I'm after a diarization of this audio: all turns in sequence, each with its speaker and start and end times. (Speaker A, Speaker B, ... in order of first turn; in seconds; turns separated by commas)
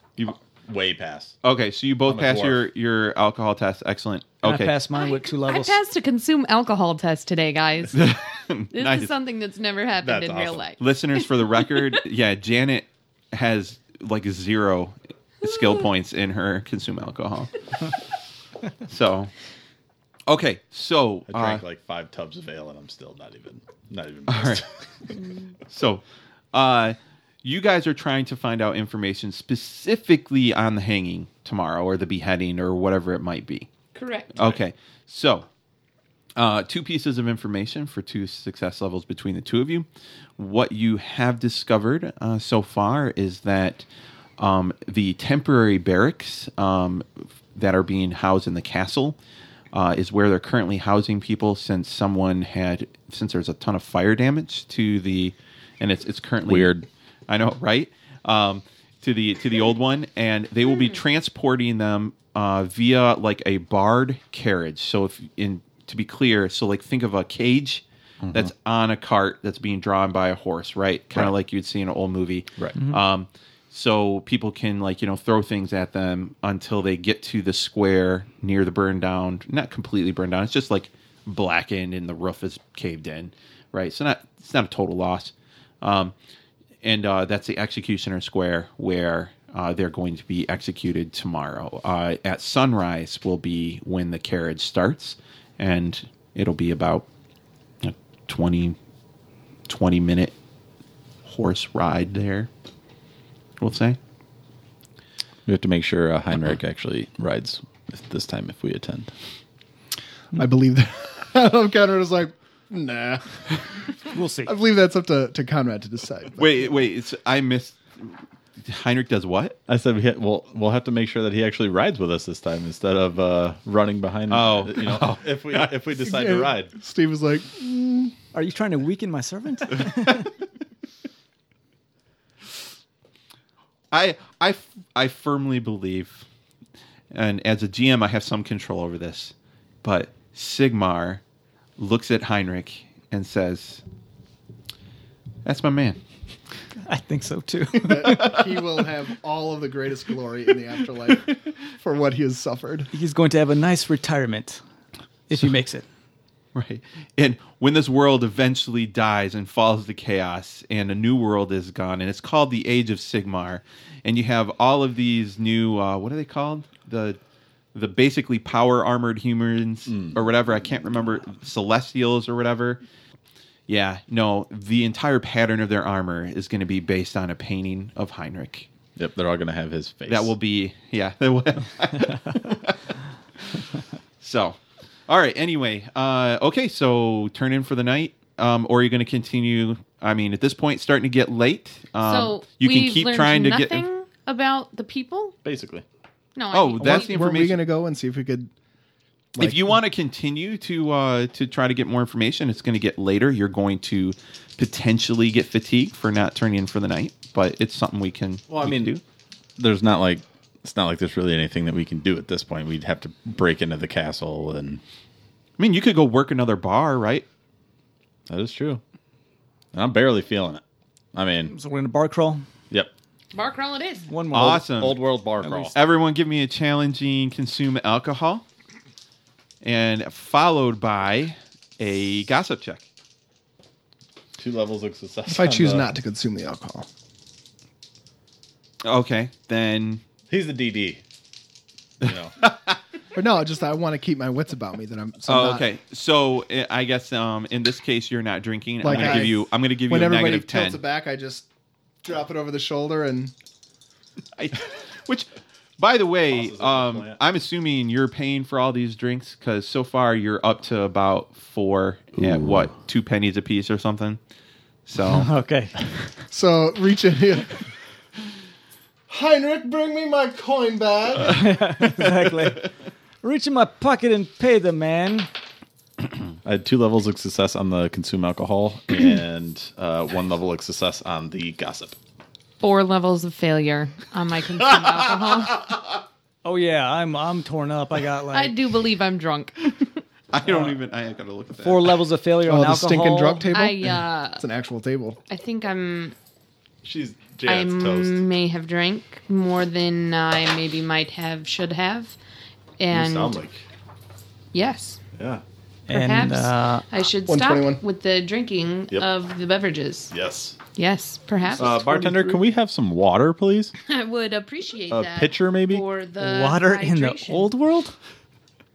Speaker A: 0.2-1.4, Speaker B: 1.4-4.8, Speaker A: 2.1-2.6, Speaker C: 4.4-5.8, Speaker D: 4.9-8.1, Speaker B: 7.9-9.1, Speaker D: 8.7-12.0, Speaker A: 10.0-10.6, Speaker B: 10.8-17.7, Speaker B: 18.9-19.3, Speaker B: 20.3-21.6, Speaker A: 21.3-24.7, Speaker B: 24.3-24.6, Speaker D: 25.2-25.4, Speaker B: 25.7-33.7, Speaker D: 34.0-34.3, Speaker B: 34.4-35.5, Speaker B: 36.4-39.9, Speaker B: 40.4-43.9, Speaker B: 44.4-49.2, Speaker B: 49.7-56.8, Speaker A: 56.5-56.9, Speaker B: 57.3-86.1, Speaker A: 68.2-68.5, Speaker B: 86.8-97.1, Speaker B: 97.8-98.8, Speaker B: 99.7-100.3, Speaker B: 101.3-102.5, Speaker B: 103.6-104.0, Speaker A: 105.5-109.1, Speaker E: 110.3-113.9, Speaker C: 114.1-114.5, Speaker E: 114.5-116.6, Speaker B: 116.4-119.6, Speaker A: 119.7-126.7, Speaker B: 124.3-125.6, Speaker E: 126.0-128.1, Speaker C: 128.3-130.3, Speaker B: 133.9-136.3, Speaker B: 137.1-141.2, Speaker B: 141.8-143.8, Speaker B: 145.4-146.0, Speaker C: 146.8-148.4, Speaker E: 147.8-152.9, Speaker C: 152.9-154.6, Speaker C: 155.3-155.9, Speaker B: 156.6-167.2, Speaker B: 167.7-172.8, Speaker A: 169.9-170.2, Speaker B: 173.7-178.7, Speaker A: 179.0-180.3, Speaker B: 180.1-182.8, Speaker B: 184.2-193.9, Speaker D: 192.0-195.4, Speaker A: 195.4-195.8, Speaker D: 196.3-197.3, Speaker B: 196.5-197.6, Speaker E: 196.8-198.5, Speaker E: 199.4-199.8, Speaker B: 199.4-209.0, Speaker A: 208.5-208.9, Speaker A: 209.6-214.8, Speaker B: 215.6-217.3, Speaker A: 218.3-218.8, Speaker A: 219.7-220.6, Speaker A: 221.1-221.5, Speaker C: 221.5-222.4, Speaker D: 223.3-224.1, Speaker C: 224.1-224.7, Speaker B: 224.3-225.0, Speaker A: 224.8-225.8, Speaker C: 225.4-225.8, Speaker B: 225.7-228.4, Speaker B: 229.6-232.8, Speaker A: 234.4-235.9, Speaker E: 235.3-236.9, Speaker B: 238.8-240.0, Speaker A: 240.3-241.0, Speaker A: 242.0-242.3, Speaker B: 242.0-242.8, Speaker E: 243.2-245.6, Speaker B: 245.3-250.8, Speaker E: 248.8-251.5, Speaker E: 252.0-253.3, Speaker B: 254.4-264.2, Speaker A: 256.3-257.2, Speaker A: 262.2-262.7, Speaker B: 264.9-265.3, Speaker C: 265.1-265.8, Speaker E: 266.3-267.6, Speaker E: 269.1-271.5, Speaker C: 271.3-272.7, Speaker C: 273.2-275.3, Speaker A: 276.4-282.0, Speaker D: 282.6-285.7, Speaker C: 286.4-288.6, Speaker D: 288.3-289.6, Speaker B: 290.3-291.9, Speaker C: 290.4-290.7, Speaker C: 291.6-293.5, Speaker E: 292.5-295.2, Speaker D: 293.5-294.4, Speaker D: 295.3-296.1, Speaker A: 296.8-298.2, Speaker D: 297.4-302.2, Speaker D: 302.8-303.4, Speaker A: 302.9-303.6, Speaker D: 304.5-305.0, Speaker A: 305.2-305.4, Speaker C: 305.9-306.8, Speaker D: 305.9-310.1, Speaker E: 307.3-307.8, Speaker A: 310.1-310.6, Speaker D: 310.7-311.7, Speaker C: 311.5-312.4, Speaker A: 311.6-313.7, Speaker D: 313.9-317.5, Speaker A: 314.9-315.9, Speaker C: 316.2-317.9